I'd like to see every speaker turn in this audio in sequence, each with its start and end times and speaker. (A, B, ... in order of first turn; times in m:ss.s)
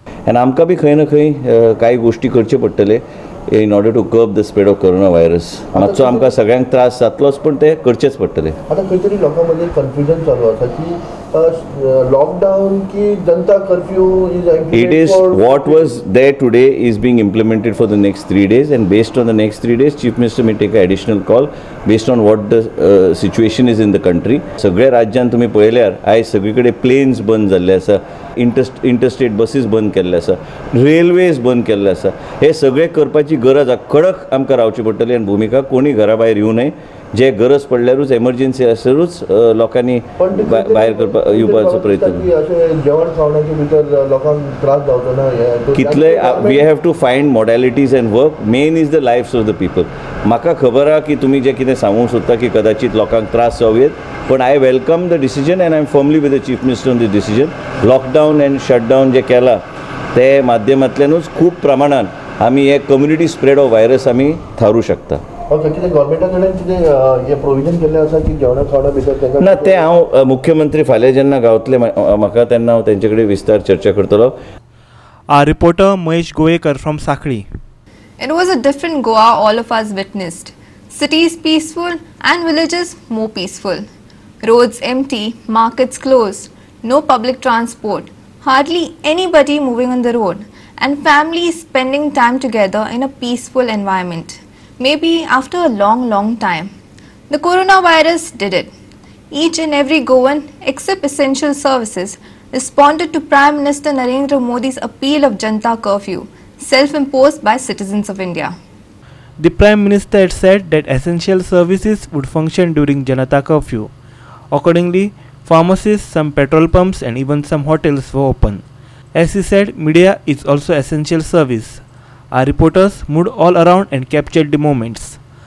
0:00.3-0:08.6 A
0:05.8-0:06.3 B
0:08.7-0:15.8 B
0:14.7-0:42.3 A
0:40.2-0:46.6 B
0:45.8-0:59.6 A
1:00.1-1:05.2 A
1:05.5-1:09.9 B
1:09.4-1:14.4 A
1:15.3-1:17.5 C
1:18.2-1:23.9 D
1:24.4-1:36.7 D
1:37.3-1:38.7 D
1:39.3-1:48.6 D
1:49.4-1:53.9 C
1:54.5-2:05.2 C